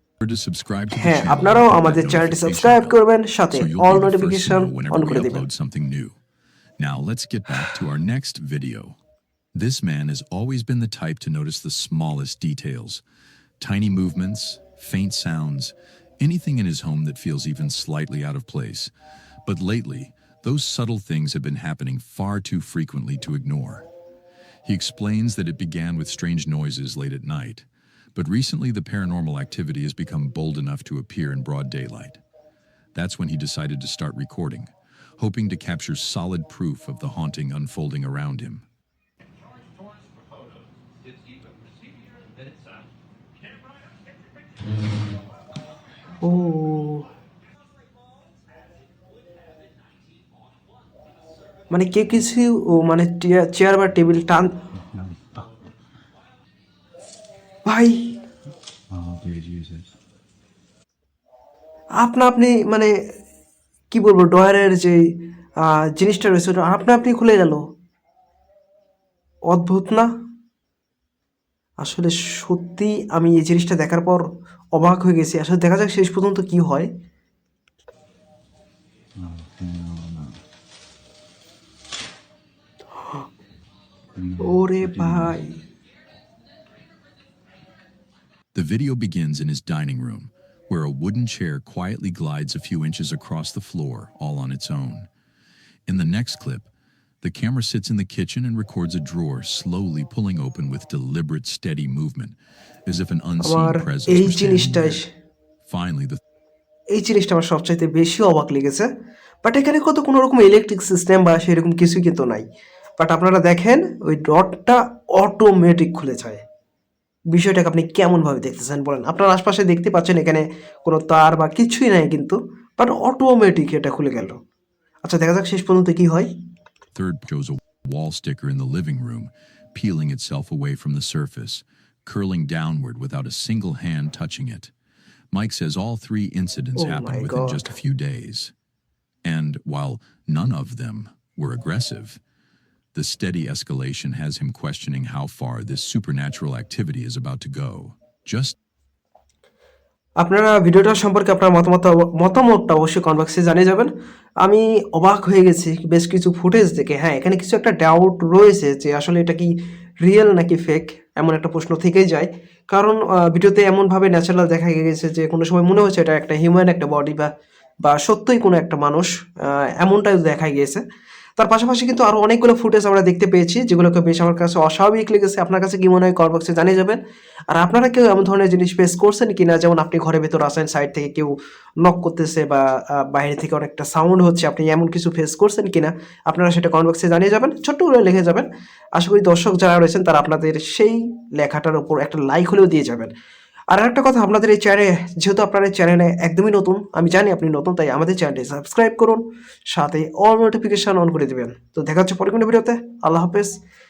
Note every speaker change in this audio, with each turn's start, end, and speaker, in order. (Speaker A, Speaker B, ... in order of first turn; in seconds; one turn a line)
Speaker A: 0.2-6.2
Speaker B: 0.9-5.4
Speaker A: 6.8-9.0
Speaker A: 9.6-13.0
Speaker A: 13.6-18.9
Speaker A: 19.5-23.9
Speaker A: 24.6-32.2
Speaker A: 32.9-38.6
Speaker B: 46.2-47.1
Speaker B: 51.7-54.5
Speaker C: 54.8-55.5
Speaker B: 57.6-58.1
Speaker C: 58.9-59.9
Speaker B: 62.0-62.9
Speaker B: 63.9-65.0
Speaker B: 65.9-67.6
Speaker B: 69.5-70.1
Speaker B: 71.8-76.9
Speaker C: 79.2-80.4
Speaker C: 84.2-85.4
Speaker B: 84.4-85.5
Speaker A: 88.5-95.1
Speaker A: 95.9-96.7
Speaker A: 97.2-105.0
Speaker B: 103.4-105.1
Speaker A: 105.7-106.2
Speaker B: 106.9-108.9
Speaker B: 109.4-112.4
Speaker B: 113.0-116.4
Speaker B: 117.3-124.4
Speaker B: 125.0-126.3
Speaker A: 126.9-134.7
Speaker A: 135.3-138.5
Speaker B: 136.8-137.6
Speaker A: 139.2-142.2
Speaker A: 142.9-148.6
Speaker B: 150.2-153.9
Speaker B: 154.4-167.3
Speaker B: 167.8-170.8
Speaker B: 171.4-177.0
Speaker B: 177.5-193.1
Speaker B: 193.7-199.2
Speaker B: 199.7-203.6